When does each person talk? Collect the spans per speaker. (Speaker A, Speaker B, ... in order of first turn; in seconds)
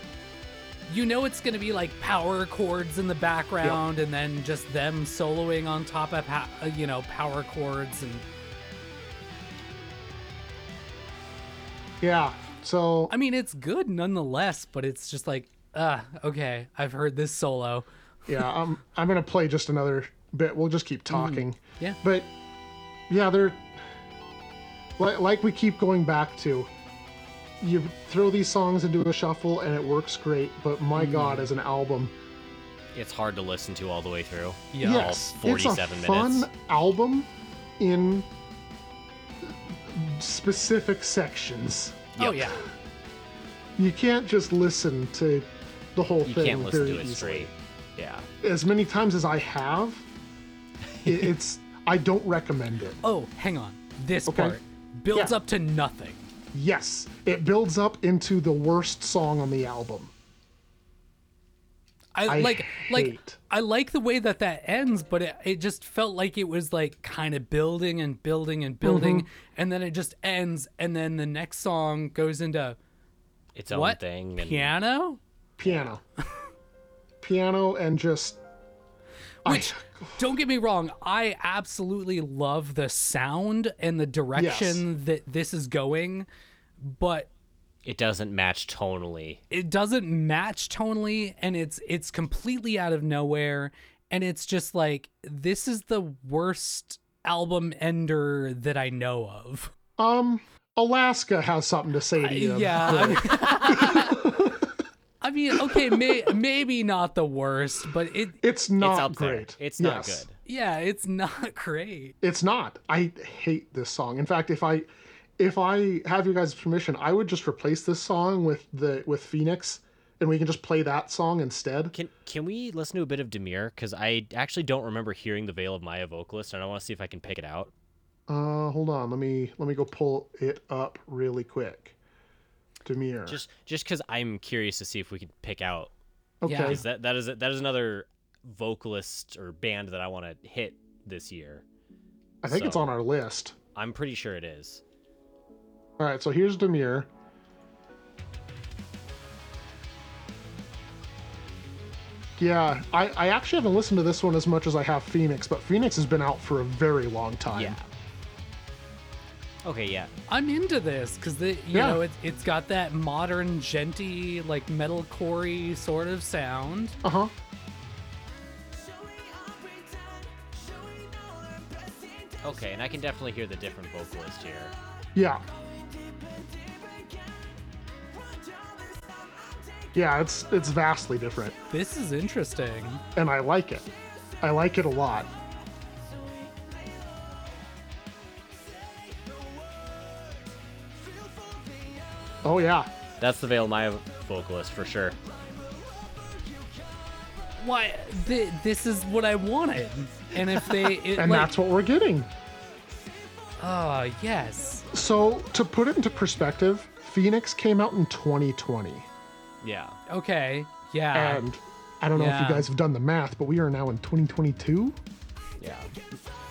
Speaker A: 0.9-8.2, 13.1-17.9, 21.1-22.0, 31.0-31.5, 34.7-35.1, 42.2-42.6, 53.0-56.2, 62.1-72.8, 73.7-75.2, 79.5-86.3, 86.8-87.3, 89.5-99.7, 102.2-104.3, 105.2-108.4, 110.5-112.2, 136.5-136.8, 160.3-167.0, 181.7-183.0, 197.6-201.5, 203.6-204.9, 210.1-211.4, 212.1-212.7
Speaker B: 12.0-13.1, 18.3-22.3, 23.1-23.7, 25.0-26.7, 27.6-32.1, 34.8-37.3, 37.8-38.3, 39.4-42.1, 43.8-47.5, 48.4-50.1, 51.0-53.0, 54.3-54.6, 55.1-55.4, 56.5-60.1, 62.3-63.4, 68.8-69.3, 75.6-76.0, 77.2-78.4, 79.5-80.2, 84.3-84.8, 100.0-104.7, 105.5-106.3, 108.4-110.2, 112.2-121.9, 128.3-131.9, 132.8-133.4, 136.4-136.8, 142.4-143.6, 146.0-147.1, 152.4-157.8, 161.7-162.0, 167.0-167.3, 175.2-175.4, 179.9-181.6, 183.2-183.9, 184.4-185.3, 192.4-192.9, 200.3-202.3, 204.9-209.1, 211.1-215.0
Speaker C: 32.9-36.5, 42.2-42.6, 46.2-48.3, 73.5-74.7, 87.8-89.4, 108.8-110.3, 121.9-127.7, 133.3-135.9, 136.6-141.6, 142.4-142.9, 143.8-144.8, 157.5-157.9, 159.6-160.1, 172.4-174.7, 193.2-195.2, 209.6-210.0, 215.6-215.9
Speaker D: 168.7-172.9, 175.5-180.1, 186.1-187.7, 188.4-192.1, 195.5-196.9